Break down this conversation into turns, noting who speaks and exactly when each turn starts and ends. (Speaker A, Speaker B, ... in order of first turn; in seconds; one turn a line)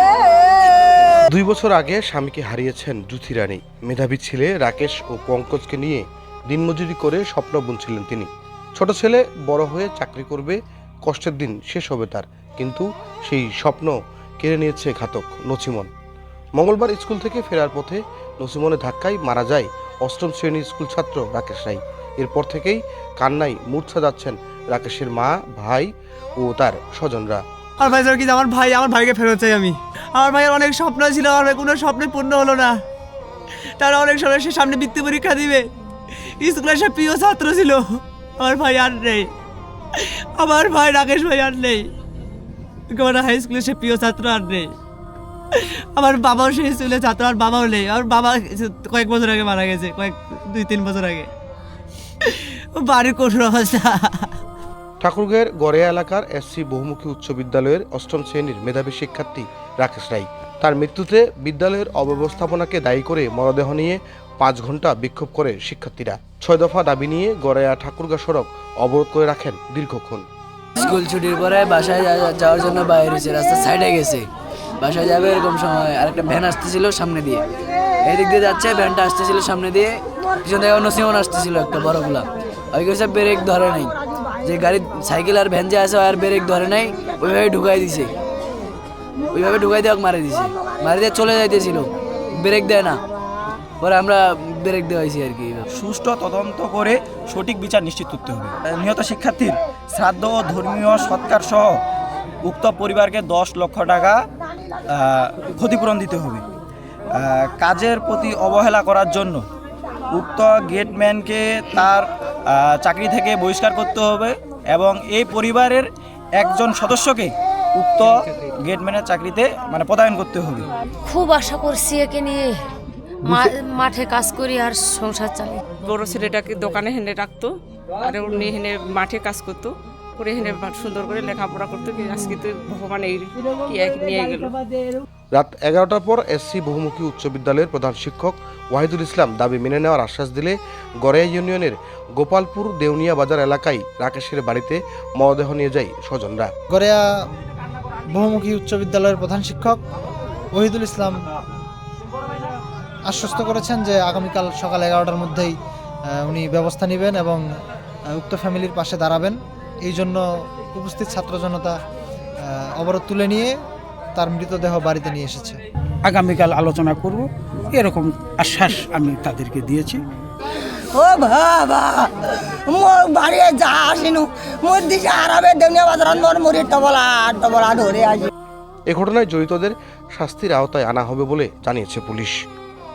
Speaker A: 1.2-15.9
Speaker A: 16.6-27.4
Speaker B: 27.8-32.7
Speaker B: 33.8-35.6
Speaker B: 36.4-37.8
Speaker B: 38.4-39.2
Speaker B: 40.4-41.8
Speaker B: 43.0-44.6
Speaker B: 46.0-51.2
Speaker B: 52.9-53.8
Speaker A: 55.0-70.2
Speaker C: 70.8-74.3
Speaker C: 74.8-77.4
Speaker C: 78.0-88.1
Speaker C: 89.3-93.0
Speaker C: 93.8-95.6
Speaker D: 95.7-101.8
Speaker D: 102.4-104.2
Speaker D: 104.9-106.4
Speaker D: 107.1-109.5
Speaker D: 110.1-120.7
Speaker E: 121.0-122.6
Speaker E: 123.2-125.6
Speaker F: 125.8-134.5
Speaker A: 135.3-146.5
Speaker G: 146.7-147.0
Speaker G: 148.1-149.8
Speaker G: 150.5-151.2
Speaker G: 153.1-155.5
Speaker G: 156.1-157.4
Speaker G: 158.1-161.7
Speaker G: 162.4-163.5
Speaker G: 164.1-165.6
Speaker H: 166.0-170.0
Speaker I: 170.9-178.3
Speaker A: 178.9-182.4